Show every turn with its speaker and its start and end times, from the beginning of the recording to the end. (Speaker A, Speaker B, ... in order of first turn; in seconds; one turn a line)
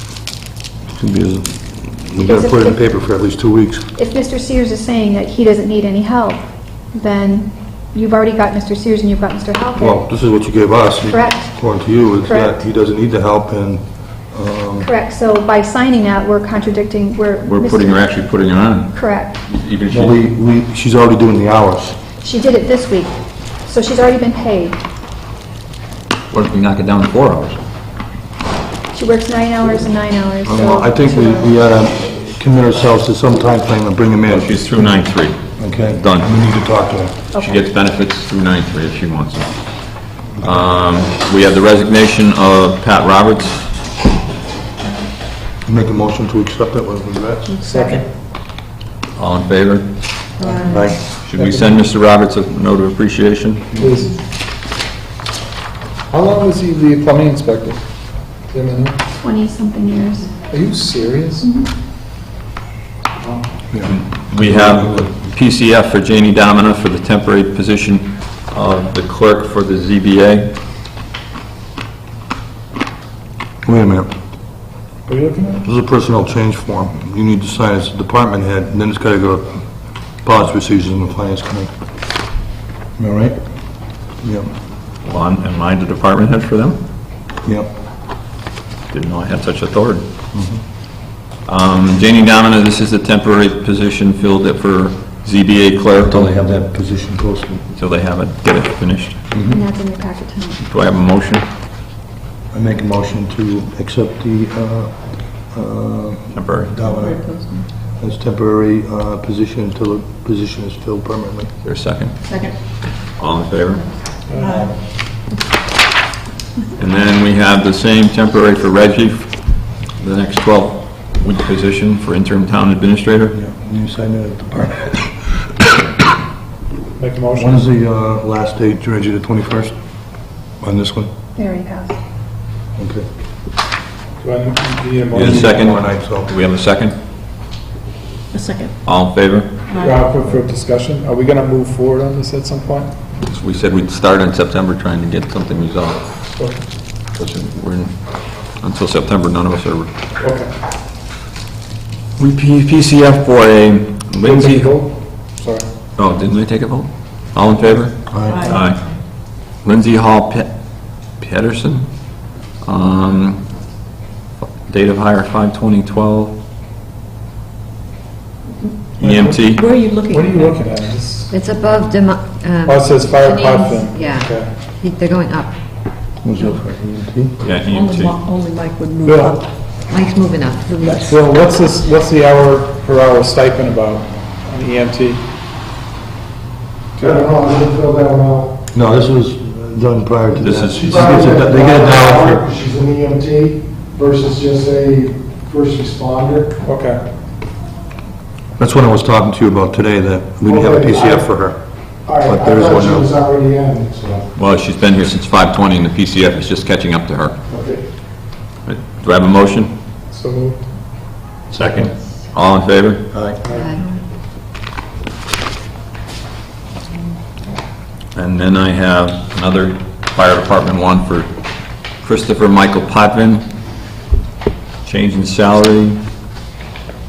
Speaker A: 0.9-3.9
Speaker B: 2.2-2.8
Speaker B: 4.0-10.1
Speaker A: 9.8-14.9
Speaker B: 11.1-12.6
Speaker B: 14.8-18.1
Speaker C: 17.4-20.2
Speaker B: 18.9-19.4
Speaker A: 19.9-22.0
Speaker B: 22.2-24.8
Speaker C: 26.3-27.6
Speaker B: 28.9-31.5
Speaker A: 30.4-34.7
Speaker C: 34.3-36.3
Speaker A: 35.6-37.2
Speaker B: 37.3-37.6
Speaker C: 37.3-43.8
Speaker A: 45.6-47.6
Speaker D: 47.5-48.1
Speaker E: 47.6-48.0
Speaker C: 49.1-50.3
Speaker D: 50.4-50.9
Speaker A: 50.6-51.0
Speaker C: 51.1-53.7
Speaker E: 51.4-51.8
Speaker E: 53.8-54.2
Speaker E: 56.1-57.8
Speaker E: 58.4-59.0
Speaker B: 59.2-60.3
Speaker E: 60.5-61.5
Speaker B: 61.4-61.7
Speaker A: 63.7-65.2
Speaker C: 63.9-70.5
Speaker A: 73.6-74.1
Speaker E: 75.1-75.6
Speaker A: 75.6-79.6
Speaker A: 80.2-81.7
Speaker A: 83.0-83.4
Speaker A: 84.2-84.5
Speaker C: 85.0-86.8
Speaker A: 87.4-87.7
Speaker C: 88.9-90.1
Speaker A: 90.3-90.6
Speaker C: 91.5-96.3
Speaker A: 96.0-97.7
Speaker C: 97.7-99.2
Speaker A: 99.3-99.6
Speaker B: 99.5-100.7
Speaker C: 100.7-101.5
Speaker A: 102.5-111.5
Speaker C: 106.3-106.7
Speaker D: 106.8-107.7
Speaker C: 111.6-114.0
Speaker D: 112.2-112.6
Speaker E: 114.3-114.6
Speaker D: 114.4-114.8
Speaker C: 116.8-123.4
Speaker A: 123.3-125.8
Speaker E: 127.0-127.7
Speaker A: 127.3-129.8
Speaker A: 130.6-131.1
Speaker B: 131.4-132.0
Speaker A: 132.8-133.1
Speaker E: 134.2-135.8
Speaker C: 135.1-137.0
Speaker A: 135.1-136.3
Speaker D: 138.3-138.7
Speaker C: 138.8-139.5
Speaker D: 139.7-140.1
Speaker E: 139.8-142.9
Speaker C: 143.2-146.3
Speaker E: 146.4-146.7
Speaker C: 147.1-149.9
Speaker E: 150.2-150.5
Speaker C: 152.2-155.1
Speaker E: 154.2-155.7
Speaker C: 156.0-161.9
Speaker A: 158.1-158.6
Speaker D: 158.2-158.9
Speaker C: 162.6-163.5
Speaker C: 164.6-166.4
Speaker E: 169.0-169.5
Speaker C: 169.0-169.8
Speaker D: 169.5-170.6
Speaker E: 170.1-171.3
Speaker F: 171.3-175.6
Speaker E: 172.7-174.6
Speaker A: 176.2-177.4
Speaker C: 177.4-178.2
Speaker D: 177.7-179.5
Speaker E: 179.0-179.4
Speaker F: 179.8-181.2
Speaker E: 180.9-185.2
Speaker E: 187.0-187.3
Speaker G: 187.0-188.6
Speaker A: 188.7-192.4
Speaker C: 190.3-191.0
Speaker G: 190.7-196.6
Speaker E: 196.6-197.0
Speaker A: 198.6-201.6
Speaker G: 200.4-201.3
Speaker G: 202.0-204.3
Speaker C: 202.2-202.9
Speaker A: 202.3-203.1
Speaker C: 204.3-207.4
Speaker G: 207.5-207.9
Speaker C: 208.7-209.8
Speaker E: 210.1-210.6
Speaker A: 211.5-211.9
Speaker C: 211.5-213.1
Speaker A: 213.1-213.4
Speaker F: 213.5-213.8
Speaker C: 218.1-221.3
Speaker C: 221.9-223.5
Speaker C: 224.8-226.0